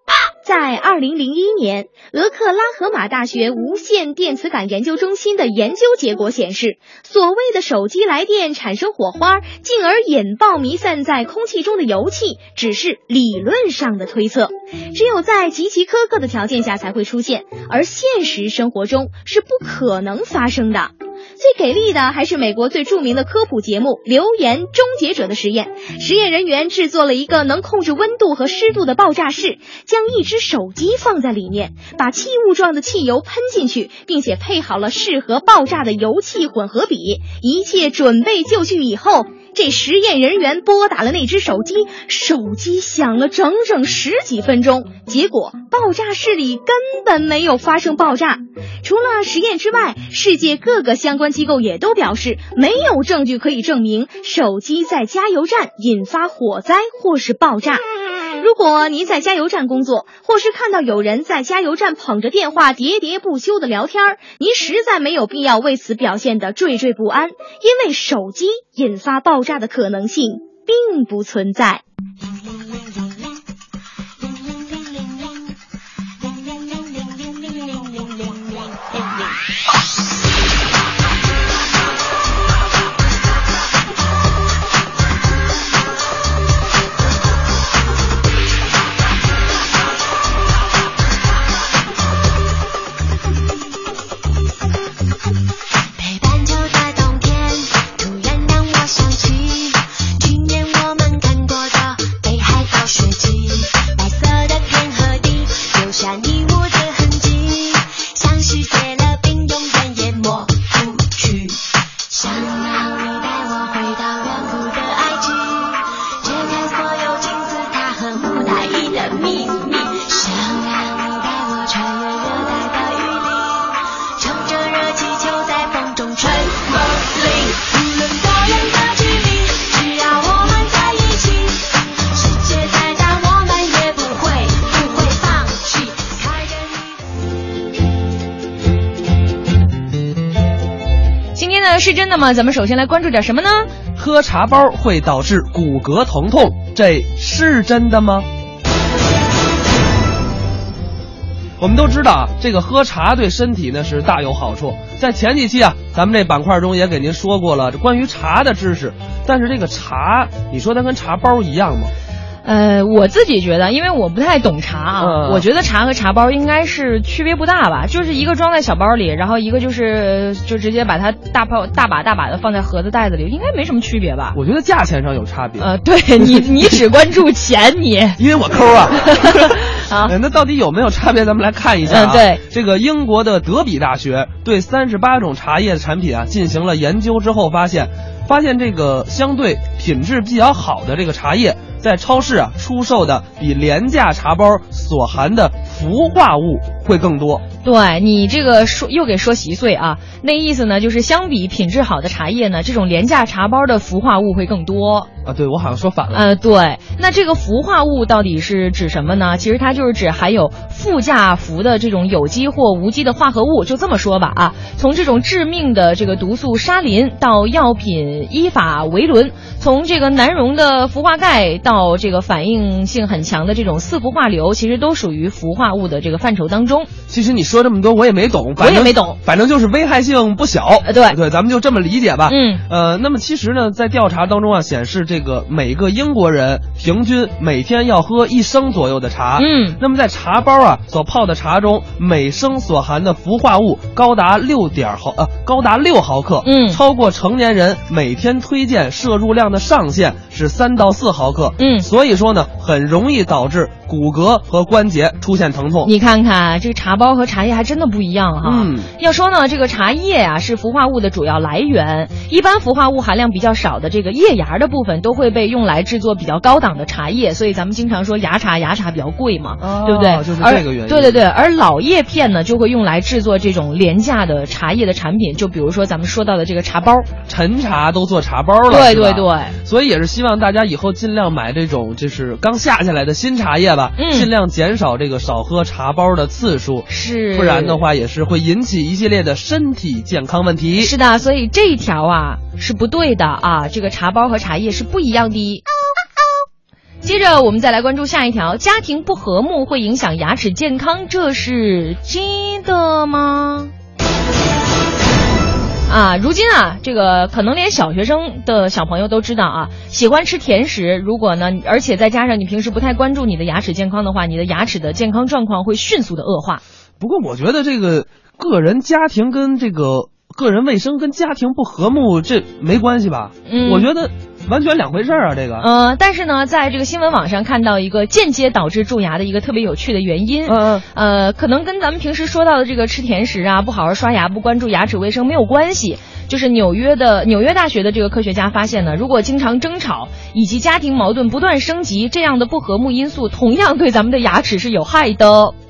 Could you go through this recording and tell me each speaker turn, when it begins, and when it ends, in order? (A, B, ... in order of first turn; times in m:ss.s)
0:00.4-0:57.8 A
0:58.4-1:11.8 A
1:36.0-2:17.0 B
2:21.3-2:23.7 C
2:24.0-2:28.3 D
2:31.6-2:41.9 D
2:42.4-2:54.4 C
2:45.0-2:45.4 D
2:54.3-2:55.7 D
2:55.6-2:58.2 C
2:56.2-2:56.7 D
2:58.2-3:17.4 D
2:59.3-3:00.1 C
3:01.8-3:02.4 C
3:17.6-3:25.1 C
3:25.2-3:26.2 D
3:26.1-3:46.9 C
3:47.1-4:15.9 D
3:48.6-3:49.2 C
3:50.8-3:51.2 C
3:52.3-3:52.6 C
3:59.4-3:59.8 C
4:06.4-4:06.8 C
4:11.6-4:11.9 C
4:15.8-4:37.1 C
4:18.4-4:18.9 D
4:29.6-4:31.2 D
4:37.3-4:50.9 D
4:38.7-4:39.6 C
4:44.0-4:44.3 C
4:46.9-4:47.8 C
4:50.8-4:55.6 C
4:57.0-5:03.7 C
5:05.9-5:16.6 C
5:17.0-5:25.7 D
5:23.5-5:23.9 C
5:25.6-5:45.5 C
5:30.4-5:30.8 D